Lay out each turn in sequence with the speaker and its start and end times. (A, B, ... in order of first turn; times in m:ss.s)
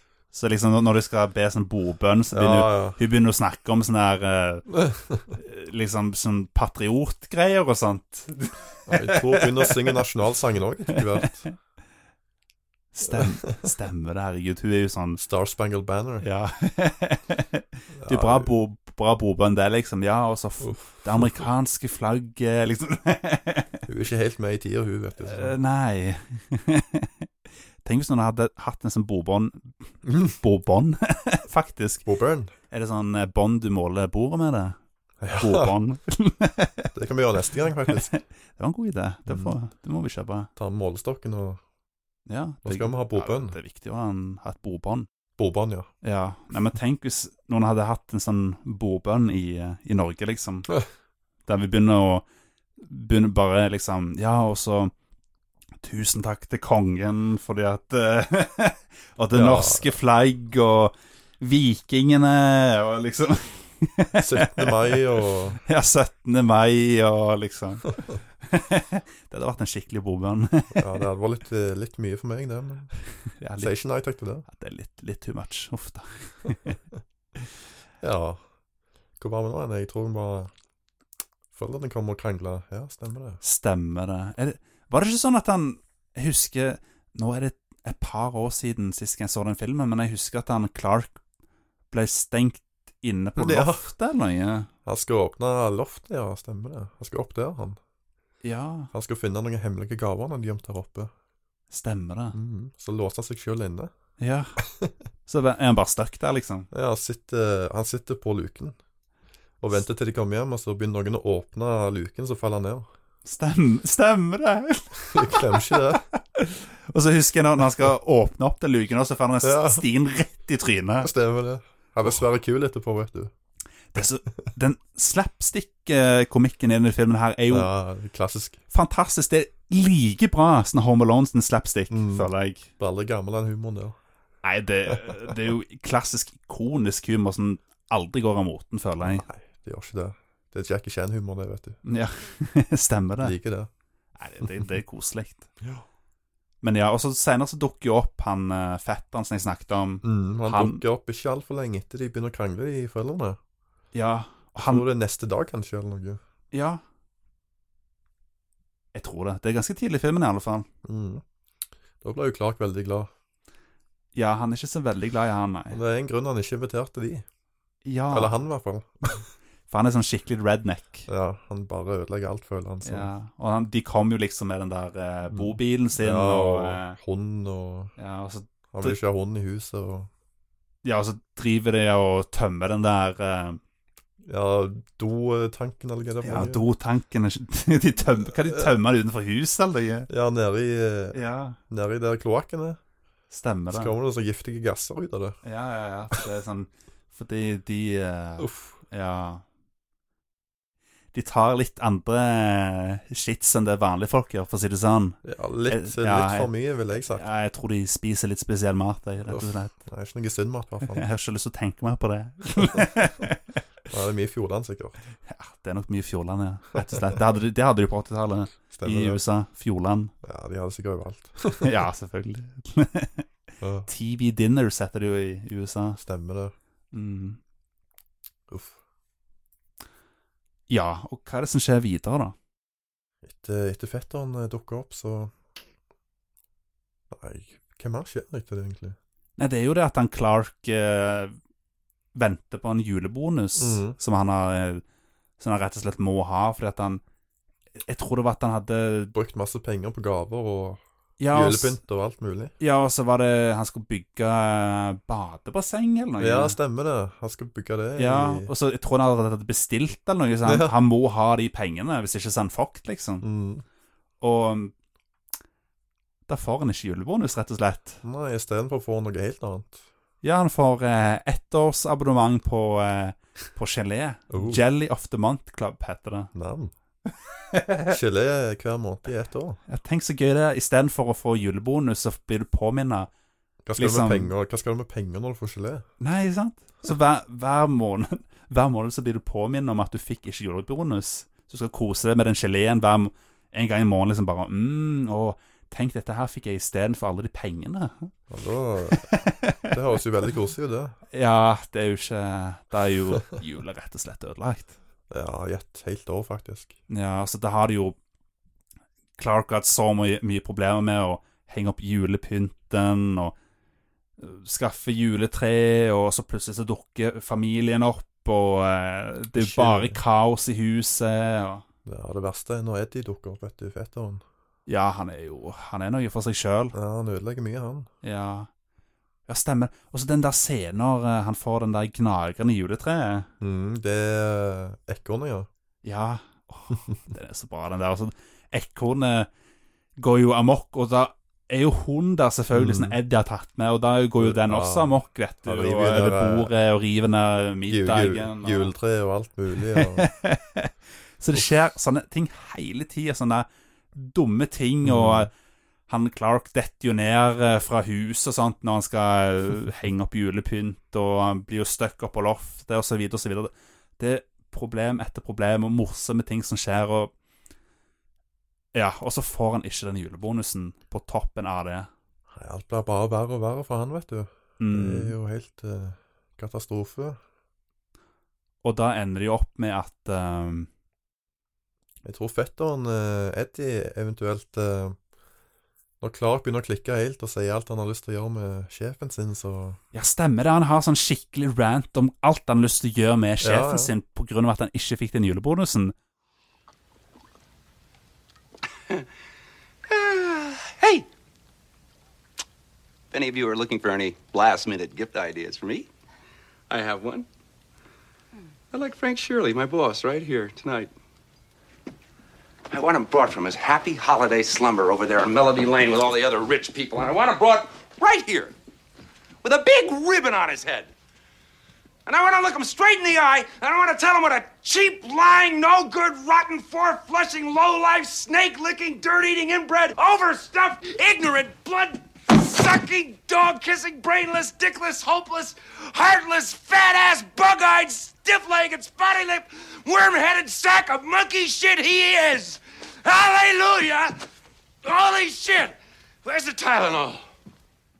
0:00.3-0:04.7 A
0:02.3-0:03.0 B
0:04.7-0:05.3 B
0:05.3-0:09.7 A
0:08.9-0:11.4 B
0:11.2-0:11.5 A
0:12.9-0:15.2 A
0:13.1-0:13.3 B
0:15.2-0:16.3 B
0:16.2-0:23.8 A
0:17.9-0:18.5 B
0:20.6-0:21.4 B
0:23.9-0:25.6 B
0:25.2-0:27.3 A
0:27.8-0:32.1 A
0:30.0-0:30.3 B
0:32.0-0:32.5 B
0:32.7-0:34.8 A
0:35.2-0:35.8 B
0:35.3-0:36.9 A
0:36.9-0:38.1 B
0:37.9-0:40.5 A
0:39.3-0:39.6 B
0:40.6-0:41.6 B
0:42.3-0:45.1 A
0:42.6-0:43.6 B
0:45.4-0:45.9 B
0:46.0-0:50.8 A
0:51.5-0:52.2 A
0:52.8-0:54.9 A
0:55.8-1:05.0 A
0:59.3-0:59.9 B
1:04.2-1:05.6 B
1:05.6-1:11.0 A
1:10.7-1:12.9 B
1:13.4-1:13.7 A
1:13.6-1:14.5 B
1:14.5-1:16.8 A
1:18.0-1:18.4 B
1:19.2-1:20.5 B
1:21.5-1:23.4 B
1:23.4-1:31.2 A
1:31.9-1:34.7 A
1:33.4-1:33.9 B
1:34.9-1:37.8 B
1:38.4-1:38.9 A
1:38.9-1:41.1 B
1:41.7-1:42.4 A
1:42.3-1:43.9 B
1:44.2-1:44.6 A
1:44.6-1:44.9 B
1:45.3-1:46.7 A
1:46.7-1:48.8 B
1:49.6-1:52.9 B
1:53.2-2:01.1 A
1:55.1-1:56.0 B
1:59.4-1:59.8 B
2:01.0-2:03.3 B
2:03.9-2:07.7 A
2:07.5-2:08.6 B
2:08.7-2:12.7 A
2:11.9-2:14.0 B
2:14.4-2:19.3 A
2:19.0-2:21.8 B
2:21.8-2:23.4 A
2:23.2-2:23.7 B
2:24.2-2:25.5 A
2:26.6-2:30.8 A
2:30.0-2:33.4 B
2:33.9-2:34.9 A
2:34.6-2:36.2 B
2:36.5-2:36.8 A
2:38.9-2:40.7 A
2:40.8-2:41.2 B
2:42.0-2:43.1 B
2:44.2-2:45.8 A
2:45.7-2:47.2 B
2:47.8-2:48.4 A
2:48.1-2:49.2 B
2:49.7-2:51.1 A
2:51.1-2:53.1 B
2:52.8-2:57.0 A
2:55.3-2:57.9 B
2:58.0-2:59.0 A
2:58.7-3:00.1 B
3:00.8-3:03.6 A
3:04.2-3:06.6 B
3:06.2-3:10.1 A
3:08.4-3:08.7 B
3:10.1-3:12.8 B
3:11.1-3:11.6 A
3:13.3-3:13.9 A
3:13.7-3:15.4 B
3:15.4-3:19.4 A
3:18.4-3:18.8 B
3:21.1-3:26.5 A
3:25.2-3:27.3 B
3:27.1-3:29.8 A
3:29.2-3:31.1 B
3:30.8-3:33.6 A
3:33.9-3:35.1 B
3:35.3-3:40.1 A
3:38.7-3:39.2 B
3:40.2-3:41.7 B
3:41.6-3:43.3 A
3:43.6-3:43.9 B
3:43.9-3:46.0 A
3:46.0-3:46.5 B
3:46.9-3:47.4 A
3:48.5-3:48.8 B
3:50.7-3:52.4 A
3:53.2-3:55.3 B
3:57.1-3:59.0 B
3:59.4-4:01.4 A
4:02.2-4:04.8 A
4:03.6-4:04.0 B
4:05.4-4:07.0 A
4:07.8-4:09.2 A
4:09.1-4:12.5 B
4:11.2-4:11.8 A
4:12.6-4:16.6 A
4:16.2-4:18.5 B
4:18.0-4:23.3 A
4:20.4-4:20.8 B
4:23.2-4:23.6 B
4:24.2-4:24.7 A
4:26.3-4:28.0 A
4:28.0-4:29.8 B
4:30.2-4:36.3 A
4:34.3-4:34.6 B
4:36.3-4:36.7 B
4:37.5-4:38.0 A
4:37.9-4:39.6 B
4:39.7-4:43.1 A
4:43.7-4:45.9 B
4:43.8-4:44.3 A
4:46.0-4:58.1 A
4:58.3-5:01.0 B
4:58.9-4:59.7 A
5:01.1-5:04.8 A
5:05.1-5:06.8 B
5:06.9-5:08.0 A
5:09.2-5:13.4 A
5:14.2-5:21.6 A
5:19.4-5:20.0 B
5:21.9-5:24.2 B
5:24.7-5:26.8 A
5:26.7-5:27.9 B
5:28.0-5:28.5 A
5:29.3-5:33.3 A
5:33.4-5:35.5 B
5:35.8-5:39.3 A
5:40.0-5:48.7 A
5:42.5-5:43.0 B
5:44.2-5:46.5 B
5:47.7-5:50.1 B
5:49.7-5:55.3 A
5:54.8-5:55.3 B
5:55.9-6:07.1 A
6:08.7-6:11.9 A
6:12.3-6:17.2 B
6:14.6-6:15.2 A
6:18.6-6:20.7 A
6:22.0-6:25.0 B
6:26.0-6:29.8 B
6:29.9-6:35.9 A
6:33.4-6:33.9 B
6:39.9-6:41.1 C
6:43.1-6:45.9 C
6:46.7-6:47.3 C
6:48.7-6:50.9 C
6:52.7-6:58.5 C
6:59.4-7:00.9 C
7:02.1-7:24.2 C
7:24.8-7:27.2 C